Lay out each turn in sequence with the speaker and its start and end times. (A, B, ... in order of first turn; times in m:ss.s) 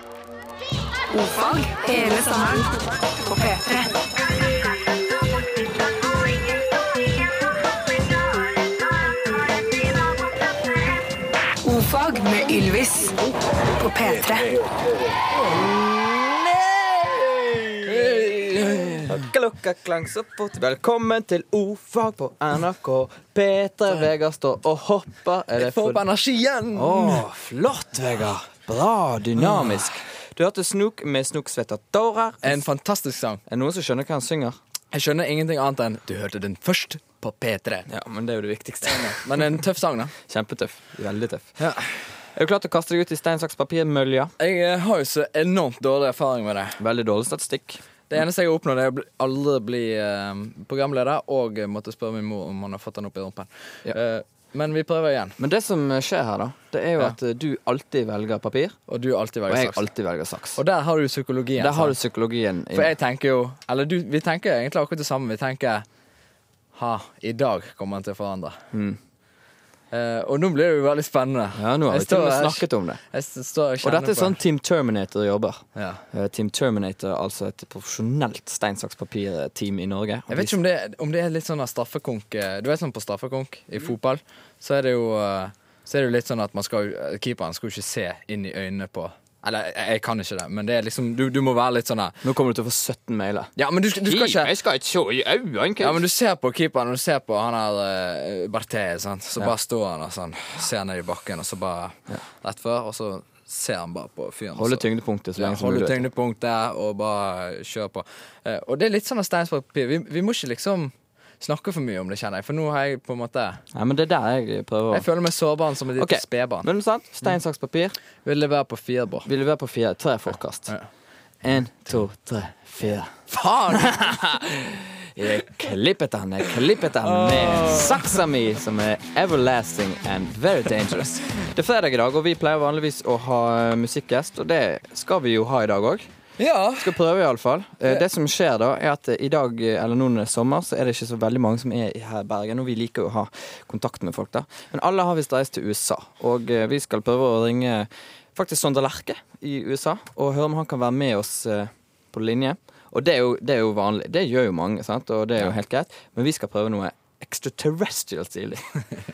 0:01.1-0:03.9 A
0:11.6-0:14.5 A
0:15.5-0:18.2 B
0:17.9-0:19.3 C
0:19.0-0:26.0 B
0:25.6-0:27.2 C
0:26.7-0:32.6 B
0:29.4-0:29.9 C
0:32.4-0:33.4 C
0:33.5-0:34.6 B
0:34.9-0:37.9 C
0:37.9-0:39.6 B
0:38.8-0:40.2 C
0:40.2-0:41.6 B
0:41.6-0:42.1 C
0:42.4-0:44.3 B
0:44.4-0:46.8 C
0:46.8-0:47.8 B
0:48.1-0:55.4 C
0:55.4-0:58.8 B
0:58.9-0:59.8 C
0:59.5-1:00.6 B
1:00.6-1:02.0 C
1:01.6-1:02.9 B
1:02.7-1:05.9 C
1:06.7-1:08.6 C
1:08.7-1:09.0 B
1:09.9-1:14.4 C
1:11.6-1:13.0 B
1:13.8-1:20.6 B
1:15.8-1:16.0 C
1:20.3-1:32.2 C
1:32.2-1:36.0 B
1:33.6-1:34.5 C
1:35.8-1:44.8 C
1:44.6-1:46.1 B
1:45.4-1:53.6 C
1:53.7-1:55.1 B
1:54.9-1:56.7 C
1:56.0-1:58.0 B
1:58.2-1:59.3 C
1:59.2-2:00.8 B
2:01.4-2:03.1 B
2:03.3-2:04.1 C
2:03.7-2:16.1 B
2:07.0-2:08.2 C
2:16.4-2:17.0 C
2:16.8-2:38.7 B